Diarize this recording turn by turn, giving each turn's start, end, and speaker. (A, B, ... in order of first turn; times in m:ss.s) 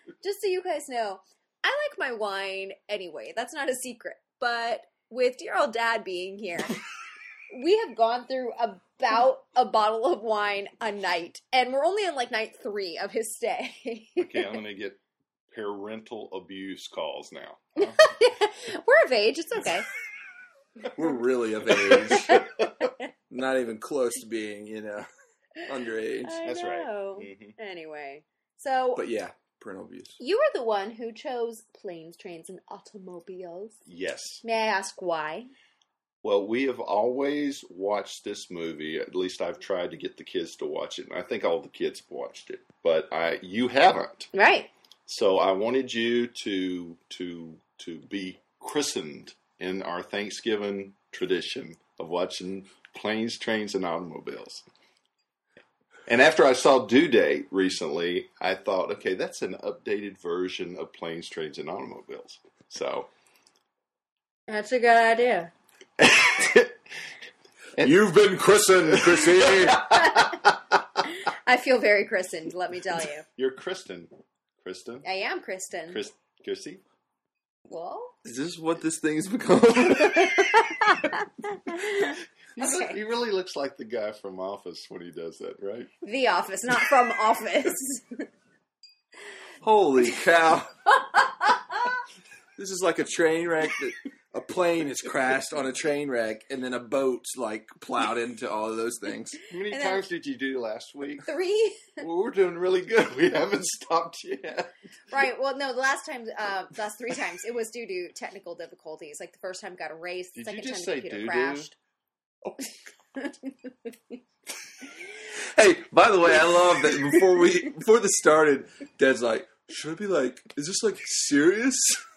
0:00.2-0:06.8 A
0:07.5-0:14.6 A
0:14.2-0:18.0 B
0:17.8-0:19.9 A
0:20.9-0:22.5 C
0:21.6-0:22.7 B
0:22.3-0:23.1 A
0:23.3-0:25.1 C
0:25.6-0:26.4 C
0:26.2-0:29.0 A
0:26.4-0:27.6 B
0:29.0-0:30.2 C
0:30.2-0:33.8 A
0:33.8-0:34.4 B
0:34.4-0:35.5 A
0:36.2-0:44.3 B
0:44.3-0:44.7 A
0:45.1-0:54.6 B
0:56.1-1:03.1 B
1:04.5-1:05.5 A
1:06.0-1:06.8 B
1:07.8-1:08.1 B
1:07.8-1:09.9 C
1:08.7-1:10.6 B
1:09.9-1:10.4 A
1:11.0-1:13.2 A
1:13.4-1:15.0 B
1:15.0-1:16.0 A
1:15.9-1:16.8 B
1:17.7-1:18.2 A
1:18.2-1:21.0 C
1:20.2-1:23.0 A
1:22.6-1:25.9 B
1:26.0-1:28.2 A
1:29.6-1:30.7 C
1:31.0-1:32.0 A
1:32.6-1:39.4 C
1:39.5-1:41.3 B
1:39.7-1:40.0 A
1:41.2-1:42.0 A
1:42.0-1:44.7 B
1:45.1-1:51.7 A
1:50.3-1:51.7 B
1:53.2-1:53.7 A
1:55.3-2:02.0 C